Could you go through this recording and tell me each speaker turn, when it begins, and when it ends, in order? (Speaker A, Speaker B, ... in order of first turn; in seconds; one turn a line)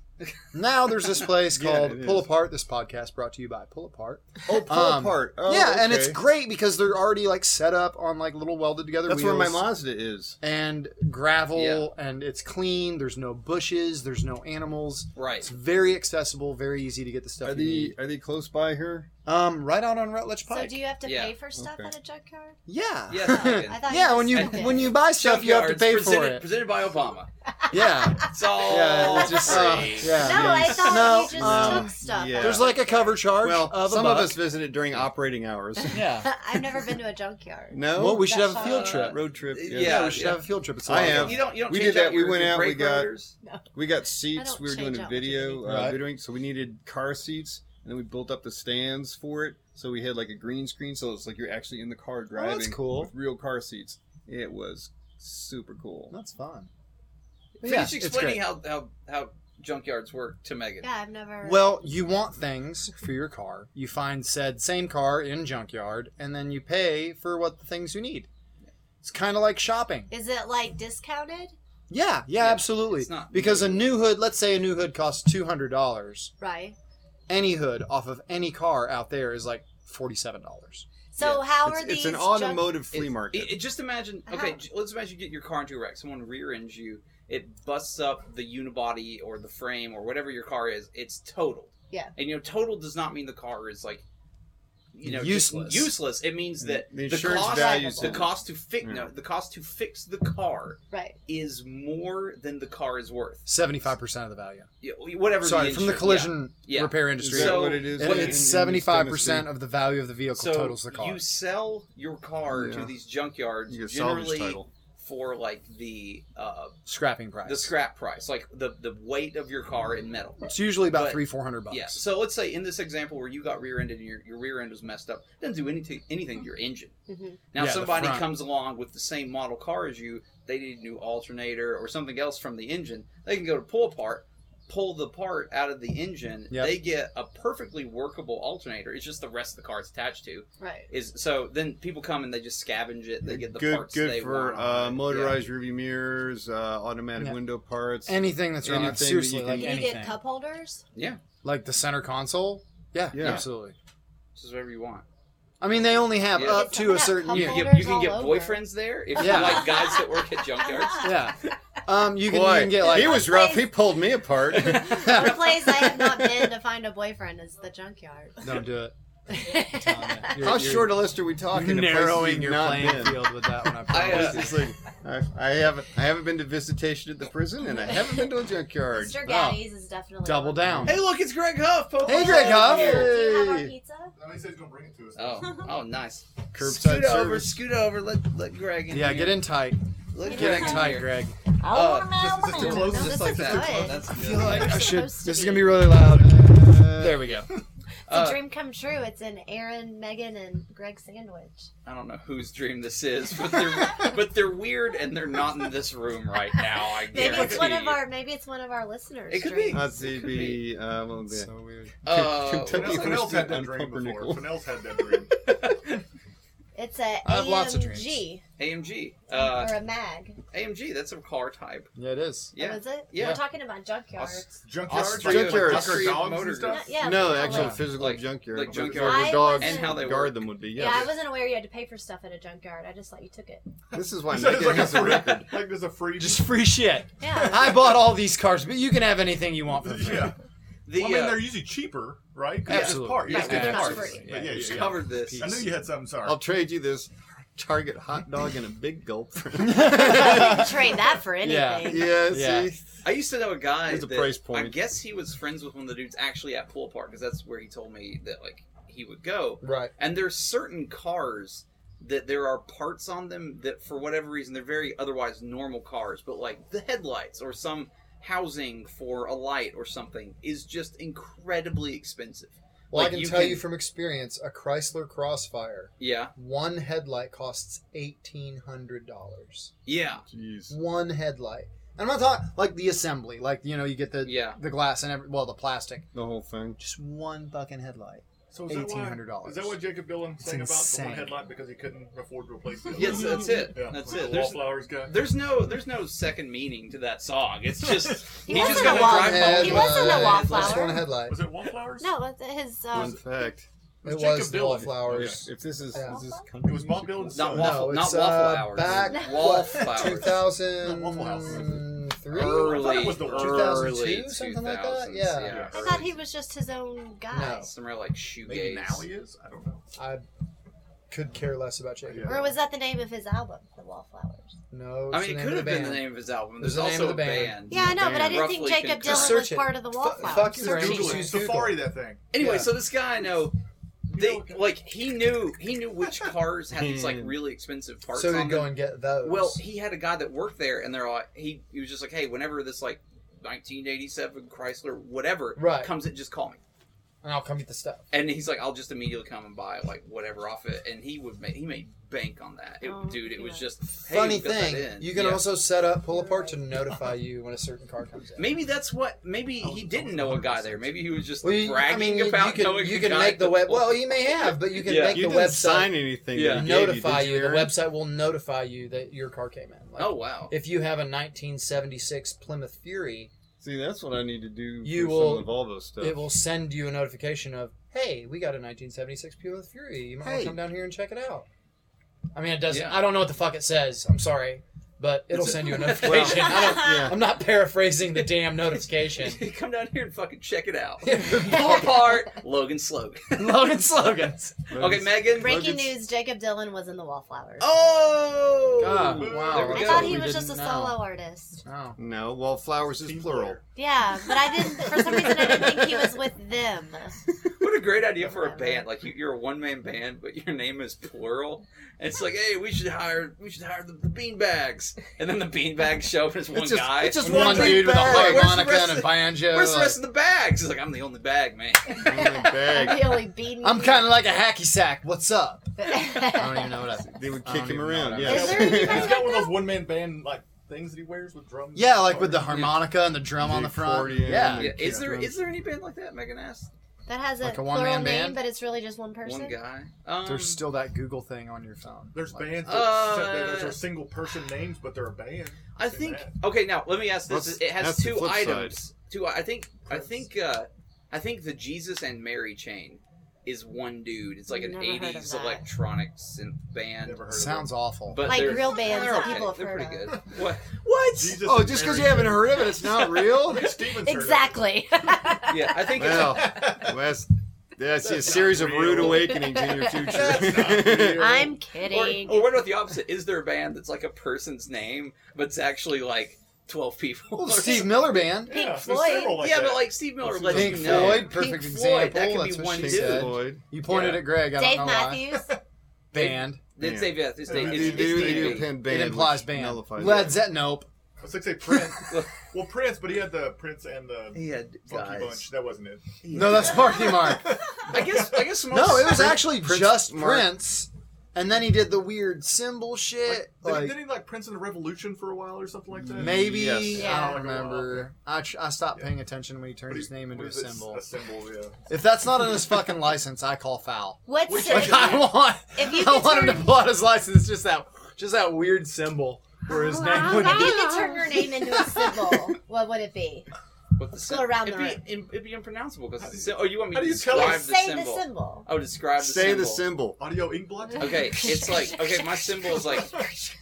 Speaker A: 0.5-9.6
Speaker B: 1.5-2.3
Speaker B: 4.5-6.2
Speaker B: 9.1-10.4
Speaker A: 10.4-17.9
Speaker C: 11.5-11.9
Speaker C: 15.2-15.5
Speaker B: 17.4-19.1
Speaker A: 19.2-20.8
Speaker D: 20.5-22.6
Speaker C: 21.0-21.3
Speaker B: 21.6-21.9
Speaker A: 22.7-26.5
Speaker C: 23.1-27.3
Speaker D: 23.2-24.9
Speaker A: 27.7-34.4
Speaker C: 28.3-30.2
Speaker D: 29.0-33.0
Speaker B: 29.7-36.1
Speaker D: 35.9-39.0
Speaker A: 35.9-36.3
Speaker B: 37.7-40.2
Speaker A: 37.9-41.4
Speaker C: 38.5-43.3
Speaker B: 40.8-43.1
Speaker B: 43.7-56.1
Speaker D: 44.3-45.6
Speaker A: 45.6-46.0
Speaker A: 52.3-53.1
Speaker A: 56.1-56.7
Speaker C: 57.6-60.9
Speaker A: 57.6-58.4
Speaker D: 60.8-61.8
Speaker A: 61.4-68.3
Speaker A: 69.0-70.1
Speaker D: 70.1-71.5
Speaker A: 71.9-76.3
Speaker C: 72.3-73.9
Speaker D: 76.4-76.8
Speaker A: 77.3-80.9
Speaker D: 81.1-82.8
Speaker B: 81.6-83.6
Speaker C: 82.9-94.0
Speaker D: 84.3-84.6
Speaker C: 94.9-103.4
Speaker A: 95.0-95.9
Speaker B: 96.6-99.1
Speaker D: 97.3-98.2
Speaker D: 100.9-101.2
Speaker A: 103.5-104.7
Speaker C: 104.8-108.4
Speaker A: 105.4-111.2
Speaker B: 107.2-109.5
Speaker C: 110.3-116.7
Speaker B: 112.5-112.9
Speaker B: 113.7-114.7
Speaker A: 116.8-117.7
Speaker C: 117.4-126.9
Speaker A: 120.5-122.0
Speaker D: 127.1-127.4
Speaker C: 127.5-145.4
Speaker A: 127.5-128.3
Speaker A: 136.5-136.8
Speaker D: 140.6-140.9
Speaker B: 143.2-149.8
Speaker A: 148.1-150.2
Speaker D: 149.5-150.8
Speaker C: 150.9-151.2
Speaker A: 151.4-153.7
Speaker B: 153.1-153.5
Speaker C: 154.3-155.0
Speaker A: 155.6-157.8
Speaker C: 156.3-161.2
Speaker D: 156.4-158.6
Speaker A: 159.2-159.8
Speaker D: 159.2-161.1
Speaker A: 161.0-163.3
Speaker B: 162.3-164.8
Speaker D: 162.8-163.8
Speaker C: 164.5-166.2
Speaker A: 164.8-165.5
Speaker D: 165.0-168.6
Speaker A: 168.4-168.9
Speaker D: 169.3-170.6
Speaker A: 169.7-174.7
Speaker B: 170.3-173.3
Speaker B: 173.9-179.2
Speaker C: 173.9-174.4
Speaker D: 177.7-178.3
Speaker D: 178.9-180.9
Speaker A: 179.2-179.6
Speaker A: 180.2-181.1
Speaker C: 180.8-183.1
Speaker A: 182.0-183.1
Speaker D: 182.0-184.1
Speaker B: 182.1-183.7
Speaker E: 184.2-185.4
Speaker C: 185.2-189.5
Speaker B: 186.5-187.6
Speaker A: 188.9-191.4
Speaker C: 190.1-191.1
Speaker D: 190.2-190.9
Speaker D: 191.6-196.0
Speaker C: 191.6-195.0
Speaker E: 192.1-194.7
Speaker A: 192.6-192.8
Speaker A: 194.1-197.5
Speaker B: 196.0-197.4
Speaker D: 198.1-201.7
Speaker C: 198.1-198.4
Speaker C: 201.8-208.0
Speaker D: 207.1-209.9
Speaker E: 207.1-207.8
Speaker C: 209.3-210.6
Speaker B: 209.7-211.5
Speaker A: 211.3-211.9
Speaker B: 212.0-214.6
Speaker C: 212.0-213.3
Speaker E: 212.7-215.3
Speaker C: 215.4-216.0
Speaker D: 216.7-218.4
Speaker A: 217.2-218.2
Speaker C: 218.6-219.8
Speaker D: 219.3-220.3
Speaker C: 220.5-221.9
Speaker A: 221.9-222.5
Speaker C: 222.5-223.4
Speaker D: 222.6-224.5
Speaker E: 224.2-227.0
Speaker C: 224.9-226.8
Speaker B: 225.2-226.3
Speaker D: 226.6-227.9
Speaker B: 227.0-231.2
Speaker A: 227.4-227.9
Speaker C: 227.8-230.4
Speaker E: 228.6-228.9
Speaker D: 228.8-230.2
Speaker D: 230.7-233.6
Speaker B: 233.9-235.6
Speaker E: 234.2-236.6
Speaker A: 236.2-240.3
Speaker D: 237.2-237.7
Speaker E: 239.8-240.4
Speaker C: 240.8-241.5
Speaker E: 240.9-246.4
Speaker A: 242.7-245.7
Speaker D: 242.7-244.3
Speaker C: 243.4-244.0
Speaker C: 244.5-245.6
Speaker B: 246.2-250.7
Speaker A: 249.6-250.7
Speaker D: 249.8-252.1
Speaker A: 251.4-252.7
Speaker B: 251.8-252.8
Speaker C: 253.0-273.6
Speaker B: 253.9-254.7
Speaker A: 259.6-259.9
Speaker A: 272.9-279.7
Speaker C: 276.0-276.3
Speaker C: 279.8-280.2
Speaker B: 280.3-280.7
Speaker A: 280.7-286.1
Speaker C: 284.2-284.6
Speaker B: 286.1-286.8
Speaker A: 286.8-289.8
Speaker E: 288.5-295.2
Speaker A: 290.4-291.4
Speaker C: 292.9-301.0
Speaker E: 298.0-299.2
Speaker D: 298.4-301.1
Speaker A: 298.5-301.4
Speaker E: 301.1-302.1
Speaker D: 302.0-303.2
Speaker B: 302.9-303.7
Speaker E: 304.0-305.4
Speaker A: 304.0-306.2
Speaker B: 304.8-307.8
Speaker D: 305.9-306.4
Speaker E: 306.6-307.9
Speaker C: 307.3-310.4
Speaker A: 307.5-315.7
Speaker D: 309.1-309.6
Speaker E: 309.8-314.0
Speaker C: 312.3-316.1
Speaker E: 315.4-315.9
Speaker D: 315.7-317.7
Speaker A: 317.3-317.7
Speaker C: 317.7-319.1
Speaker E: 318.4-319.9
Speaker A: 319.9-320.2
Speaker A: 321.1-322.5
Speaker E: 322.1-322.5
Speaker D: 322.2-324.5
Speaker A: 324.7-326.1
Speaker C: 325.1-329.4
Speaker A: 326.6-327.6
Speaker D: 327.7-331.3
Speaker B: 327.7-328.5
Speaker A: 329.0-331.8
Speaker E: 330.2-332.2
Speaker C: 332.3-333.6
Speaker A: 332.3-332.7
Speaker C: 334.1-338.7
Speaker E: 334.1-334.7
Speaker B: 336.7-337.3
Speaker A: 338.1-339.6
Speaker C: 339.2-346.6
Speaker A: 345.6-345.9
Speaker A: 347.2-348.0
Speaker C: 348.1-355.4
Speaker D: 352.8-353.6
Speaker A: 354.0-358.6
Speaker D: 356.1-356.6
Speaker C: 358.4-365.3
Speaker E: 359.6-361.0
Speaker A: 361.4-373.3
Speaker B: 364.9-367.7
Speaker C: 366.3-366.7
Speaker C: 370.0-370.6
Speaker B: 373.6-376.2
Speaker A: 374.8-381.5
Speaker B: 380.2-380.6
Speaker A: 382.3-389.4
Speaker C: 382.7-383.0
Speaker C: 385.3-386.4
Speaker B: 386.0-387.2
Speaker C: 389.1-393.4
Speaker A: 391.0-392.1
Speaker A: 393.3-394.7
Speaker B: 394.7-396.0
Speaker C: 394.7-395.6
Speaker D: 395.3-397.7
Speaker C: 397.6-400.2
Speaker A: 398.8-401.0
Speaker E: 399.0-399.9
Speaker D: 399.7-401.6
Speaker A: 401.6-402.0
Speaker B: 402.0-403.6
Speaker E: 402.9-403.6
Speaker D: 403.7-407.1
Speaker C: 407.6-422.1
Speaker D: 408.2-408.8
Speaker A: 416.5-420.0
Speaker B: 417.2-418.5
Speaker E: 417.2-418.3
Speaker B: 421.9-423.2
Speaker D: 421.9-424.1
Speaker A: 423.6-428.8
Speaker D: 425.8-426.8
Speaker B: 427.1-429.2
Speaker D: 428.2-429.6
Speaker E: 428.2-432.6
Speaker A: 431.7-434.8
Speaker C: 432.5-432.9
Speaker B: 433.3-435.4
Speaker C: 434.4-436.7
Speaker E: 434.8-435.1
Speaker D: 437.1-439.6
Speaker A: 437.4-438.4
Speaker C: 439.2-440.6
Speaker A: 440.2-442.7
Speaker E: 442.1-446.4
Speaker C: 442.6-443.8
Speaker C: 445.8-457.2
Speaker B: 447.3-448.8
Speaker E: 449.9-450.2
Speaker D: 454.5-455.6
Speaker E: 457.0-457.7
Speaker A: 457.3-458.6
Speaker C: 458.1-461.4
Speaker D: 458.2-460.1
Speaker E: 461.1-464.6
Speaker B: 461.4-463.7
Speaker A: 461.7-463.3
Speaker D: 463.9-466.0
Speaker C: 465.5-466.8
Speaker B: 465.9-471.4
Speaker E: 466.2-466.9
Speaker E: 468.0-471.6
Speaker D: 469.1-470.5
Speaker D: 471.1-472.4
Speaker C: 471.8-478.1
Speaker A: 477.4-478.6
Speaker E: 478.4-480.6
Speaker D: 478.5-479.5
Speaker C: 479.3-484.3
Speaker A: 480.4-485.3
Speaker B: 480.5-481.3
Speaker B: 482.8-483.6
Speaker D: 484.5-485.6
Speaker A: 486.1-486.6
Speaker C: 486.1-488.7
Speaker B: 486.8-490.4
Speaker E: 487.4-488.7
Speaker A: 488.7-490.9
Speaker E: 491.2-498.6
Speaker C: 494.3-495.5
Speaker C: 496.2-497.1
Speaker A: 496.3-497.6
Speaker C: 497.8-499.4
Speaker A: 498.7-504.0
Speaker B: 498.7-500.5
Speaker E: 503.3-508.1
Speaker B: 506.1-507.1
Speaker A: 506.2-511.0
Speaker D: 506.9-507.4
Speaker E: 509.9-511.8
Speaker A: 511.9-522.4
Speaker D: 514.3-516.7
Speaker E: 514.5-515.3
Speaker D: 519.7-523.5
Speaker C: 524.0-529.8
Speaker D: 524.1-525.0
Speaker E: 526.2-527.7
Speaker D: 527.3-528.7
Speaker B: 529.2-530.2
Speaker E: 530.2-531.6
Speaker C: 531.0-533.1
Speaker D: 531.4-532.0